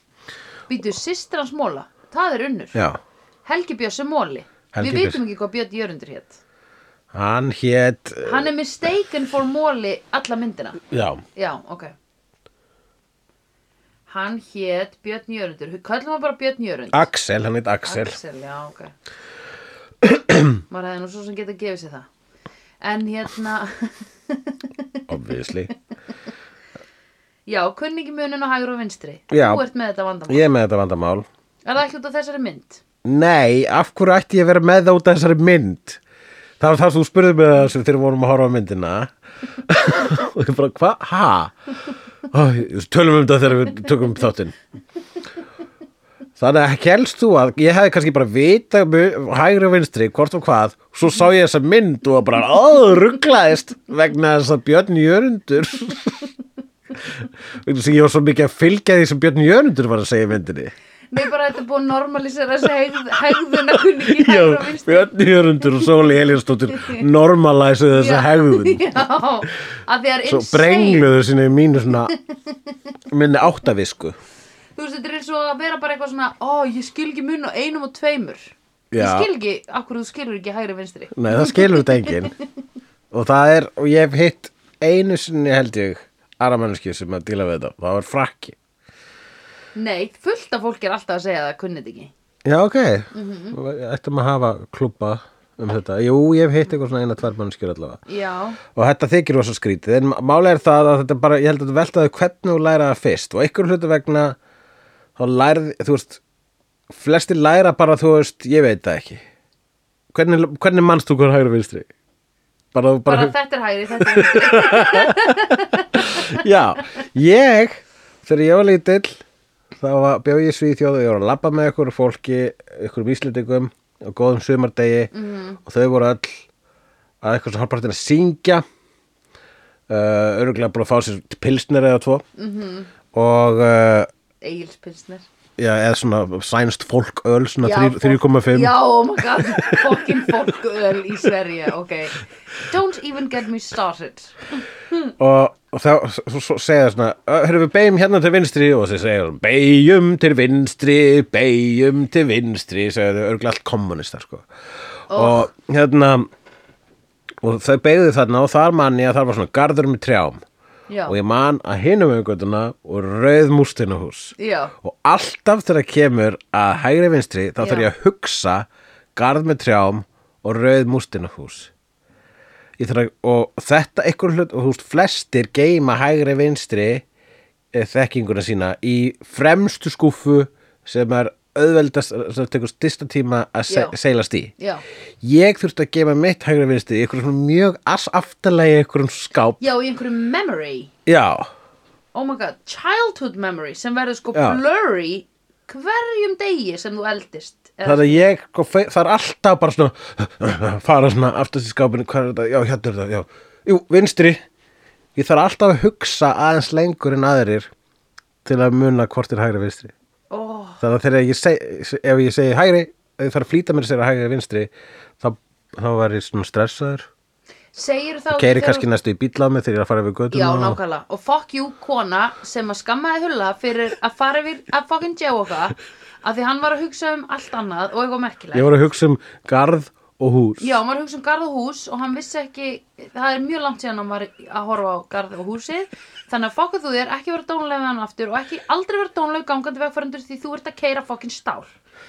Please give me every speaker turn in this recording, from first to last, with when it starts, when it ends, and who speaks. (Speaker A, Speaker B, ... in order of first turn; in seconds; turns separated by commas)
Speaker A: 0.7-2.8, Speaker B: 2.7-3.0, Speaker A: 3.5-6.4, Speaker B: 4.7-5.2, Speaker B: 7.1-8.5, Speaker A: 8.2-10.8, Speaker B: 10.9-11.2, Speaker A: 11.3-11.9, Speaker A: 14.1-17.1, Speaker B: 16.9-18.2, Speaker A: 17.9-18.9, Speaker B: 20.0-20.6, Speaker A: 20.7-22.1, Speaker A: 22.8-25.0, Speaker B: 25.1-25.7, Speaker A: 27.5-30.5, Speaker B: 29.3-29.6, Speaker B: 30.3-31.3, Speaker A: 31.7-32.8, Speaker B: 33.0-36.0, Speaker B: 36.6-41.6, Speaker B: 42.3-44.6, Speaker B: 46.4-56.3, Speaker B: 57.0-60.7, Speaker A: 61.1-65.1, Speaker B: 64.0-68.9, Speaker A: 66.7-67.0, Speaker A: 67.9-71.1, Speaker B: 70.3-72.1, Speaker B: 73.1-74.2, Speaker A: 74.8-82.3, Speaker B: 78.9-79.3, Speaker B: 81.1-82.3, Speaker B: 83.1-88.6, Speaker A: 89.8-92.1, Speaker B: 92.5-98.0, Speaker A: 93.1-93.6, Speaker A: 98.1-98.6, Speaker B: 98.7-104.4, Speaker B: 105.2-106.2, Speaker B: 106.9-109.2, Speaker B: 110.1-111.9, Speaker B: 112.7-113.3, Speaker A: 113.1-116.4, Speaker B: 113.9-119.2, Speaker B: 119.8-125.1, Speaker A: 125.1-125.6, Speaker B: 125.6-126.5, Speaker B: 127.2-128.6, Speaker B: 129.9-132.2, Speaker A: 132.4-132.9, Speaker B: 133.1-134.1, Speaker A: 134.4-135.3, Speaker B: 135.6-140.3, Speaker A: 137.6-145.1, Speaker B: 145.2-154.5, Speaker A: 155.1-155.5, Speaker B: 155.1-156.3, Speaker B: 157.4-160.4, Speaker A: 160.9-161.2, Speaker B: 161.1-171.7, Speaker A: 164.4-164.7, Speaker A: 167.6-167.9, Speaker B: 172.8-177.0, Speaker B: 177.7-184.5, Speaker A: 183.7-183.9, Speaker A: 184.6-184.8, Speaker B: 185.2-189.6, Speaker A: 189.6-190.9, Speaker B: 191.1-191.5, Speaker A: 192.1-198.2, Speaker B: 194.3-194.6, Speaker B: 197.8-204.4, Speaker B: 205.2-207.7, Speaker B: 208.4-209.9, Speaker A: 210.3-210.8, Speaker B: 210.8-217.1, Speaker A: 217.7-218.9, Speaker B: 218.3-220.8, Speaker A: 220.3-228.7, Speaker B: 228.5-230.8, Speaker A: 230.6-241.7